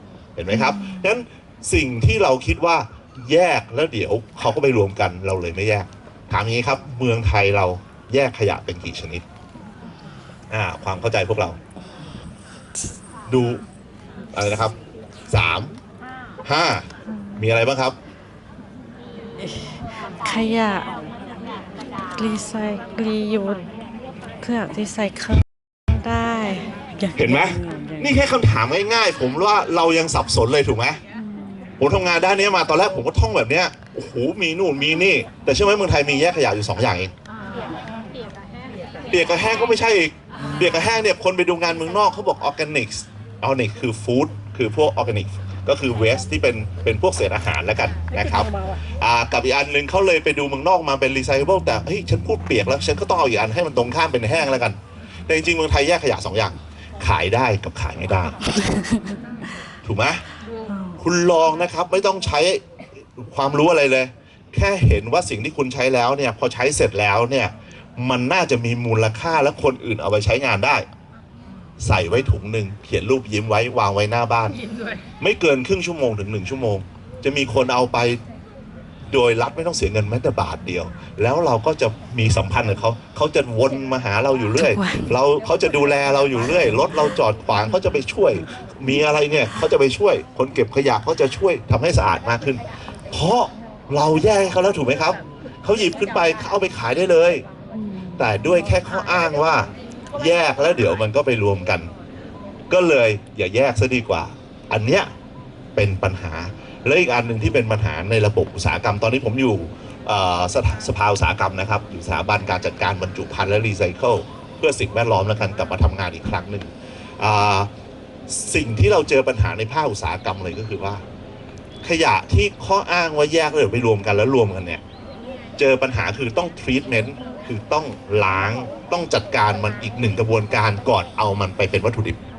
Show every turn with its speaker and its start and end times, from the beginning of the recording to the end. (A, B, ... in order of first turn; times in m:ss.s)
0:00.4-0:09.2 A
0:00.5-0:01.1 B
0:10.5-0:11.6 A
0:13.3-0:13.6 A
0:14.3-0:14.8 A
0:15.3-0:15.7 A
0:16.4-0:18.0 A
0:19.4-0:20.9 B
0:22.2-0:23.6 B
0:24.4-0:28.2 B
0:27.2-0:31.0 A
0:31.8-0:37.1 A
0:39.1-0:58.4 A
0:58.7-0:59.0 B
0:59.8-1:00.2 A
1:00.7-1:01.0 B
1:01.0-1:10.8 A
1:11.8-1:14.6 A
1:15.2-1:18.2 A
1:19.1-1:37.4 A
1:24.6-1:25.2 B
1:37.8-1:38.5 B
1:38.2-1:41.9 A
1:42.7-1:45.1 A
1:45.7-1:57.7 A
1:58.3-2:01.0 A
2:01.8-2:04.8 A
2:05.6-2:12.2 A